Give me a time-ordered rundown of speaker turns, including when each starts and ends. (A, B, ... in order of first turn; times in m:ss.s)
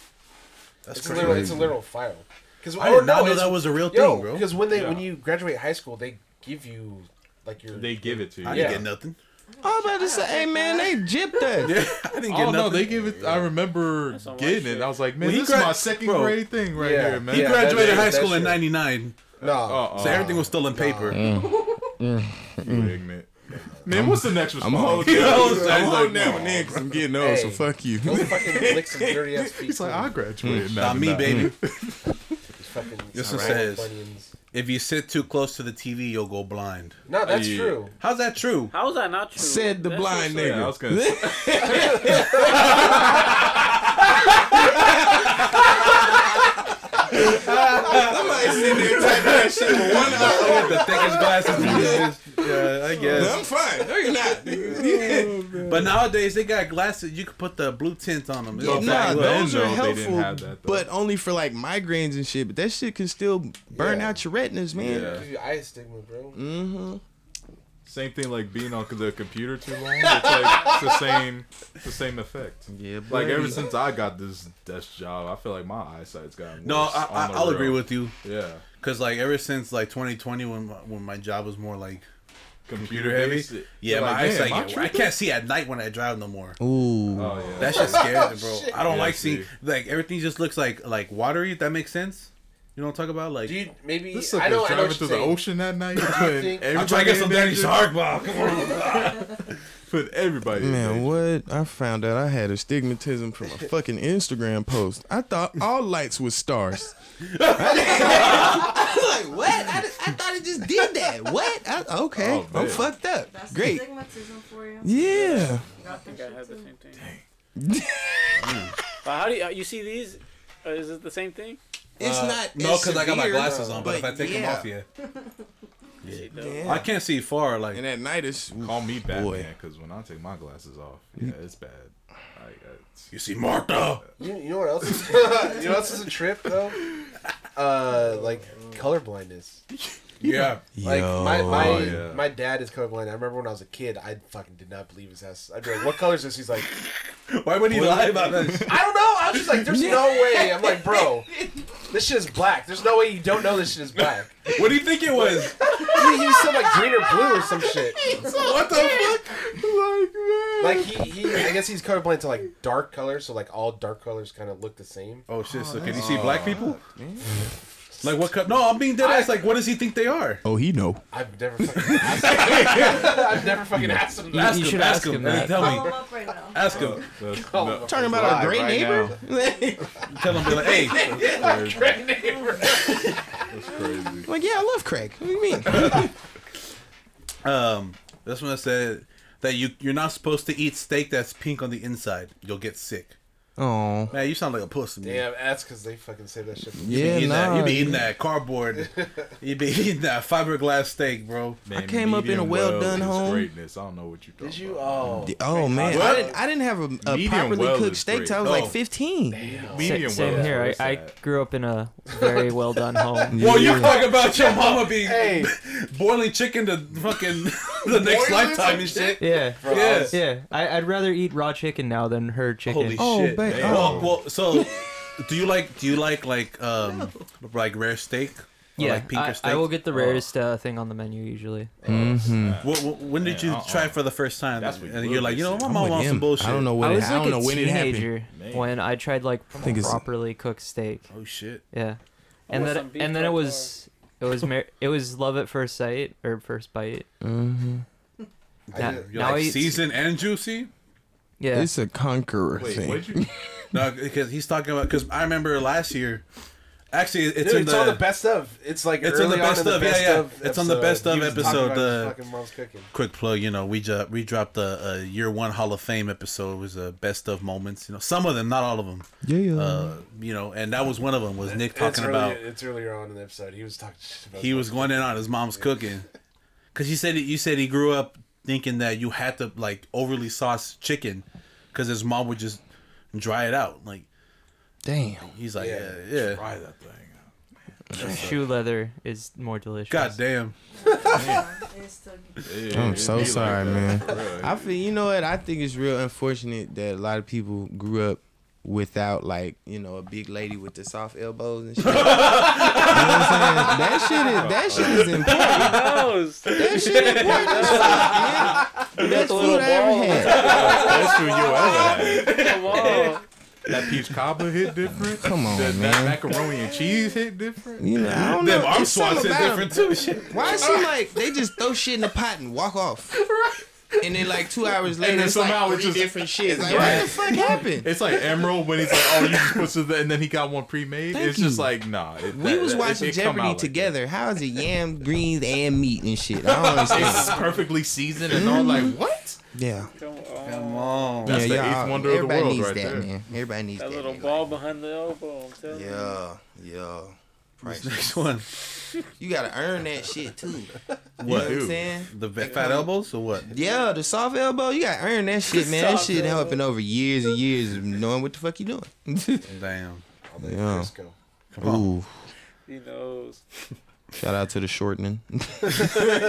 0:00.9-0:01.7 A
0:00.9-0:08.8 B
0:01.2-0:01.7 C
0:02.8-0:05.0 A
0:04.8-0:05.0 D
0:07.7-0:08.9 D
0:08.4-0:09.2 A
0:09.5-0:11.7 E
0:09.6-0:11.8 C
0:11.6-0:13.2 A
0:12.3-0:18.1 D
0:13.1-0:13.5 B
0:14.0-0:15.0 F
0:15.2-0:16.4 A
0:16.7-0:18.6 B
0:17.3-0:19.2 A
0:19.4-0:21.4 B
0:19.4-0:20.5 D
0:19.9-0:21.2 A
0:21.1-0:23.0 C
0:21.3-0:21.9 D
0:22.6-0:26.9 D
0:23.5-0:23.9 B
0:23.9-0:29.3 C
0:25.0-0:26.2 A
0:27.0-0:30.2 B
0:29.4-0:32.1 D
0:30.4-0:31.6 C
0:30.8-0:31.6 A
0:32.6-0:34.3 B
0:33.1-0:33.9 A
0:33.2-0:33.6 C
0:34.5-0:37.0 A
0:37.1-0:37.9 B
0:37.2-0:37.9 D
0:38.0-0:38.7 A
0:38.7-0:40.7 F
0:39.4-0:42.9 C
0:40.4-0:43.7 D
0:42.5-0:43.5 A
0:44.0-0:46.2 A
0:47.2-0:55.5 C
0:47.2-0:53.4 A
0:48.3-0:52.1 D
0:52.9-0:53.5 D
0:54.4-0:56.0 D
0:55.7-0:59.5 A
0:58.6-1:00.9 D
0:58.6-1:05.3 C
1:03.7-1:04.2 B
1:04.8-1:05.3 D
1:04.8-1:06.4 B
1:06.3-1:07.0 C
1:07.9-1:18.6 D
1:10.0-1:11.2 B
1:12.7-1:13.7 C
1:16.6-1:18.2 A
1:18.8-1:22.0 A
1:22.7-1:25.1 D
1:22.8-1:26.6 A
1:26.6-1:27.6 C
1:27.1-1:29.5 D
1:27.6-1:28.9 B
1:27.6-1:33.7 A
1:33.4-1:36.7 B
1:34.1-1:37.9 D
1:36.7-1:39.5 A
1:39.9-1:41.2 D
1:40.6-1:53.9 C
1:47.3-1:48.7 A
1:52.2-1:52.9 D
1:52.7-1:55.2 E
1:54.8-1:55.7 C
1:55.0-1:57.1 F
1:55.8-1:56.7 E
1:57.0-1:57.2 D
1:57.6-1:58.6 C
1:58.4-1:58.8 A
1:59.0-2:01.6 F
2:02.0-2:04.7 C
2:02.0-2:04.9 A
2:03.4-2:04.0 B
2:06.0-2:07.8 A
2:06.0-2:06.9 F
2:06.4-2:06.9 C
2:07.7-2:09.5 C
2:08.6-2:13.1 D
2:13.1-2:14.0 A
2:14.2-2:16.9 B
2:16.5-2:17.1 D
2:17.6-2:19.6 B
2:18.0-2:18.8 D
2:19.7-2:22.4 D
2:20.2-2:20.9 A
2:20.8-2:22.0 C
2:20.8-2:26.7 B
2:26.7-2:29.7 A
2:27.8-2:28.7 C
2:28.4-2:34.6 B
2:29.7-2:31.7 C
2:34.4-2:35.6 A
2:35.3-2:39.2 C
2:35.9-2:38.2 B
2:38.2-2:41.6 D
2:38.4-2:39.0 A
2:40.6-2:45.3 B
2:45.3-2:46.8 A
2:45.5-2:47.4 C
2:45.9-2:46.7 D
2:48.0-2:50.4 A
2:49.0-2:49.4 B
2:50.4-2:51.0 C
2:51.1-2:54.5 B
2:51.6-2:52.4 C
2:51.8-2:53.1 A
2:54.3-2:55.9 G
2:54.3-2:57.1 A
2:55.4-2:57.0 E
2:56.6-2:59.0 D
2:57.3-2:59.2 B
2:57.8-3:00.0 C
3:00.1-3:01.1 A
3:00.2-3:03.6 B
3:01.0-3:02.1 D
3:03.5-3:04.3 D
3:03.8-3:04.2 E
3:04.2-3:06.1 C
3:05.7-3:06.1 A
3:07.4-3:13.2 A
3:13.6-3:14.1 C
3:14.1-3:15.3 A
3:15.0-3:18.0 B
3:16.7-3:18.1 C
3:16.8-3:21.6 A
3:18.8-3:19.3 B
3:21.6-3:26.3 D
3:21.7-3:23.5 C
3:24.4-3:26.4 B
3:25.2-3:29.5 C
3:27.0-3:28.7 D
3:28.4-3:28.8 A
3:29.3-3:30.5 B
3:29.4-3:31.2 D
3:29.8-3:33.4 G
3:33.1-3:35.5 B
3:33.3-3:34.1 C
3:33.4-3:40.2 A
3:38.0-3:39.2 D
3:38.1-3:40.2 B
3:39.2-3:43.2 G
3:42.7-3:50.3 A
3:43.0-3:44.6 C
3:43.4-3:44.2 D
3:48.8-3:51.8 G
3:51.8-3:52.6 C
3:51.8-3:54.0 D
3:52.6-3:56.7 A
3:54.6-3:56.1 D
3:55.7-3:58.1 C
3:56.8-4:01.1 G
3:58.3-3:58.7 D
3:59.6-3:59.8 D
3:59.6-4:00.0 C
4:01.1-4:01.6 A
4:01.7-4:07.1 G
4:02.5-4:03.7 F
4:07.2-4:07.8 C
4:08.7-4:10.7 A
4:08.7-4:09.5 B
4:08.8-4:09.8 G
4:11.4-4:11.7 G
4:11.5-4:13.6 C
4:12.6-4:13.3 D
4:13.7-4:16.2 A
4:16.9-4:18.1 A
4:17.4-4:22.9 B
4:19.0-4:22.2 A
4:22.9-4:32.4 A
4:29.2-4:30.0 C
4:31.4-4:36.0 B
4:34.4-4:36.1 A
4:36.7-4:42.6 A
4:43.1-4:44.1 A
4:44.8-4:45.3 C
4:45.2-4:46.4 A
4:45.6-4:46.0 B
4:46.2-4:47.3 D
4:47.9-4:48.5 D
4:47.9-4:48.3 C
4:48.0-4:50.2 G
4:49.9-4:51.0 A
4:50.7-4:53.9 E
4:51.1-4:51.5 D
4:52.4-4:54.7 D
4:52.7-5:05.9 C
5:01.8-5:05.8 A
5:04.3-5:05.1 D
5:05.3-5:13.2 F
5:06.5-5:10.5 C
5:06.5-5:09.5 A
5:10.2-5:14.0 A
5:10.4-5:13.0 D
5:13.7-5:18.4 D
5:15.2-5:16.2 C
5:17.8-5:23.2 C
5:18.4-5:20.9 A
5:20.3-5:20.8 F
5:23.2-5:33.9 D
5:24.0-5:28.0 C
5:31.1-5:31.7 C
5:32.3-5:37.4 C
5:36.5-5:39.4 D
5:38.3-5:39.9 C
5:40.0-5:41.3 F
5:40.4-5:41.6 A
5:41.2-5:43.1 D
5:41.3-5:44.6 C
5:43.8-5:46.1 F
5:45.7-5:48.2 C
5:47.6-5:48.9 A
5:49.2-5:52.8 C
5:51.2-5:53.5 A
5:51.2-5:52.0 D
5:52.4-5:52.8 F
5:53.5-5:59.5 C
5:55.5-5:56.6 F
5:59.5-6:00.0 A
6:00.2-6:01.2 B
6:00.4-6:00.9 C
6:01.5-6:01.9 A
6:01.6-6:02.3 C
6:02.7-6:03.4 F
6:04.1-6:06.0 C